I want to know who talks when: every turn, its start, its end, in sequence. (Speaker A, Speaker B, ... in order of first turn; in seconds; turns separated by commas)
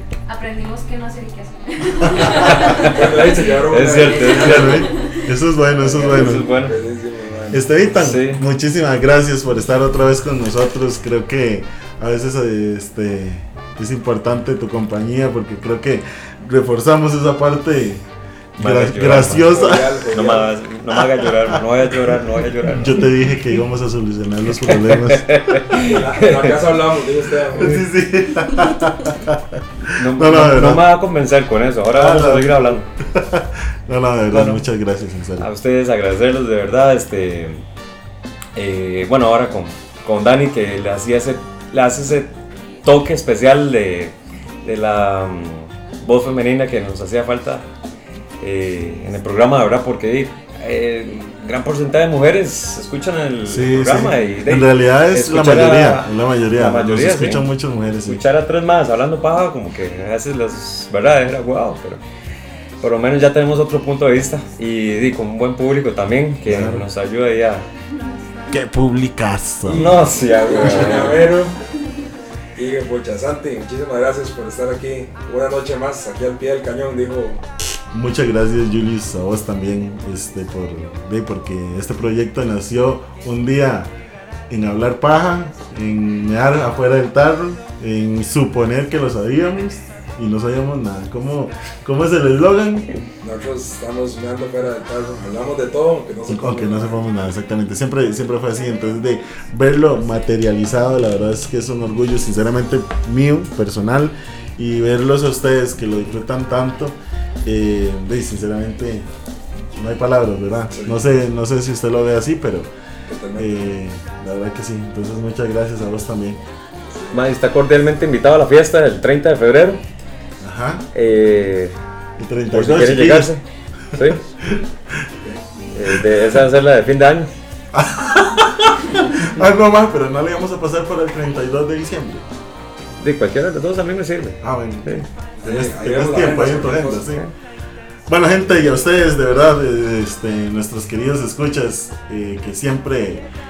Speaker A: 0.3-5.2, Speaker B: 2.0-2.7, Speaker C: 2.2-4.9, Speaker D: 2.2-3.0, Speaker D: 3.6-4.9, Speaker B: 4.4-6.5, Speaker D: 5.8-6.8, Speaker C: 6.0-7.9, Speaker B: 7.5-18.0, Speaker D: 7.9-8.4, Speaker B: 18.6-20.0, Speaker D: 18.6-23.1, Speaker C: 19.4-20.5, Speaker B: 20.9-22.1, Speaker B: 22.6-25.8, Speaker D: 24.6-26.6, Speaker C: 25.8-27.8, Speaker B: 27.5-30.9, Speaker D: 29.9-32.9, Speaker B: 31.9-35.5, Speaker D: 34.3-34.6, Speaker D: 35.4-37.6, Speaker D: 38.5-42.3, Speaker D: 42.8-47.7, Speaker D: 48.4-57.5, Speaker B: 53.5-58.2, Speaker D: 58.0-62.0, Speaker D: 62.8-67.7, Speaker B: 66.5-66.9, Speaker B: 68.5-70.0, Speaker D: 69.6-71.3, Speaker C: 70.4-71.5, Speaker B: 70.6-71.1, Speaker C: 72.5-77.4, Speaker B: 77.9-83.9, Speaker B: 84.5-92.9, Speaker C: 93.2-97.0, Speaker B: 96.3-109.1, Speaker B: 109.8-112.7, Speaker C: 110.7-111.0, Speaker C: 113.1-113.5, Speaker B: 113.4-116.4, Speaker C: 116.9-117.2, Speaker D: 117.1-119.8, Speaker B: 120.4-120.8, Speaker D: 120.9-121.8, Speaker B: 122.2-123.3, Speaker D: 122.5-123.4, Speaker B: 123.9-125.1, Speaker D: 123.9-124.2, Speaker D: 125.7-127.3, Speaker B: 127.7-132.2, Speaker D: 133.0-135.1, Speaker B: 134.4-137.2, Speaker C: 135.4-137.1, Speaker B: 138.1-143.2